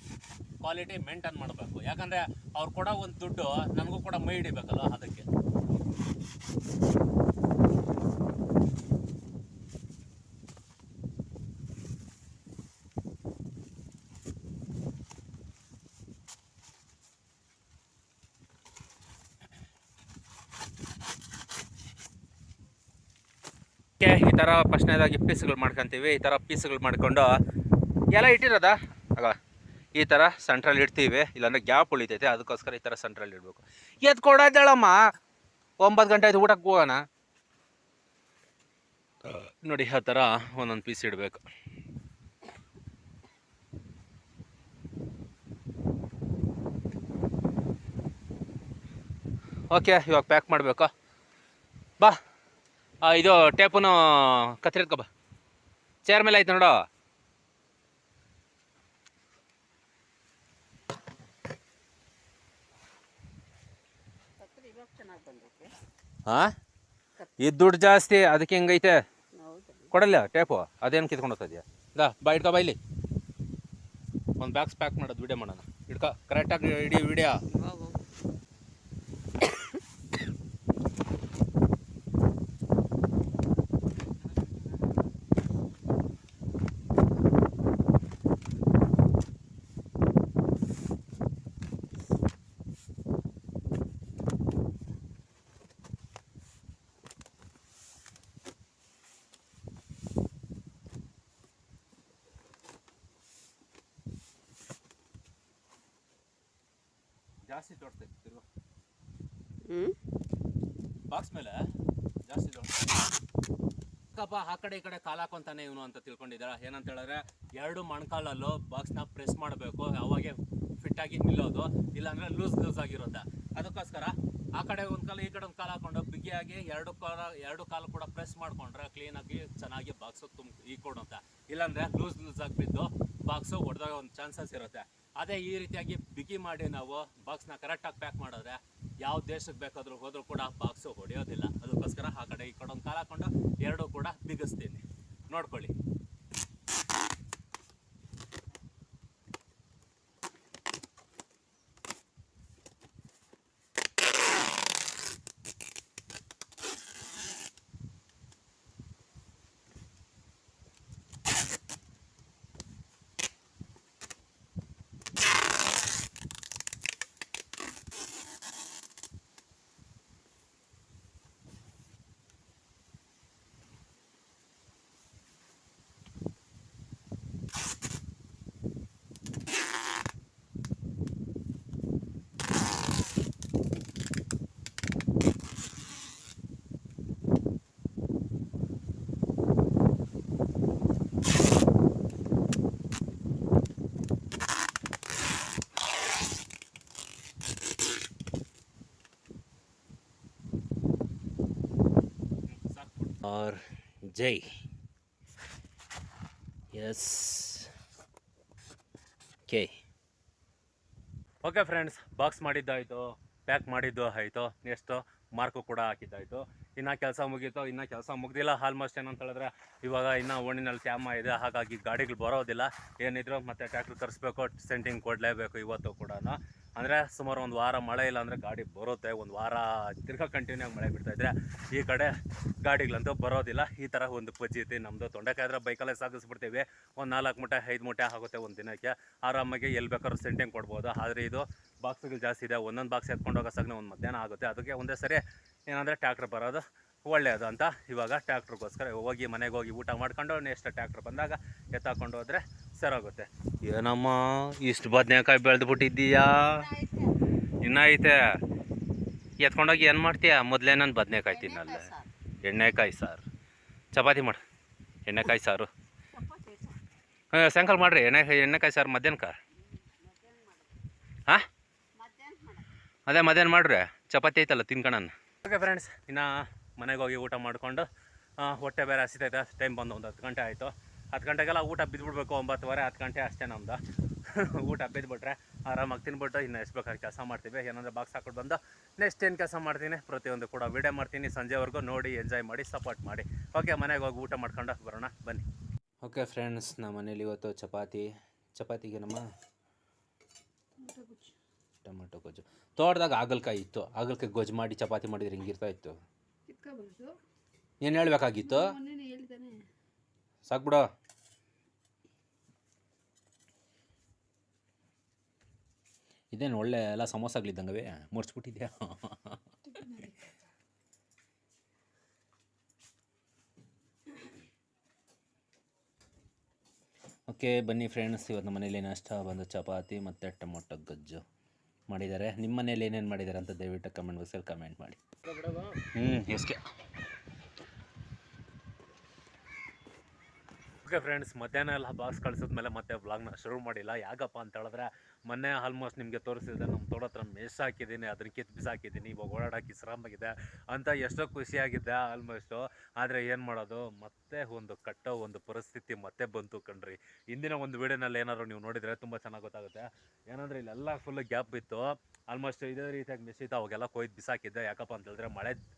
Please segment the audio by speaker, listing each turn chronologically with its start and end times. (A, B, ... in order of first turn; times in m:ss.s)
0:00.6-0:05.3 A
0:24.0-0:27.4 A
0:28.1-0:29.4 A
0:29.9-0:35.1 A
0:35.8-0:37.0 A
0:39.2-0:41.4 A
0:49.7-0:50.9 A
0:53.0-0:55.1 A
0:56.0-0:56.8 A
1:04.4-1:05.7 B
1:06.3-1:06.5 A
1:07.4-1:09.0 A
1:09.4-1:09.9 B
1:09.9-1:12.8 A
1:14.4-1:17.4 A
1:17.5-1:18.0 B
1:47.5-1:48.4 A
1:49.7-1:49.9 B
1:51.1-1:51.7 A
1:52.2-1:53.0 A
1:54.1-2:25.7 A
3:22.5-3:24.6 A
3:26.7-3:27.7 A
3:29.5-3:29.8 A
3:31.4-4:16.7 A
4:16.4-4:17.2 B
4:17.6-4:18.3 A
4:19.4-4:21.9 A
4:21.2-4:22.1 B
4:22.4-4:23.2 A
4:23.9-4:24.4 A
4:25.0-4:25.7 A
4:26.1-4:26.8 B
4:27.3-4:29.4 A
4:29.7-4:30.7 B
4:32.0-4:32.7 B
4:33.1-4:55.5 A
4:56.0-4:59.2 A
5:01.8-5:06.0 A
5:07.8-5:08.8 A
5:10.4-5:10.8 A
5:16.3-5:20.1 A
5:27.3-5:31.2 A
5:31.9-5:36.6 A
5:40.8-6:05.6 A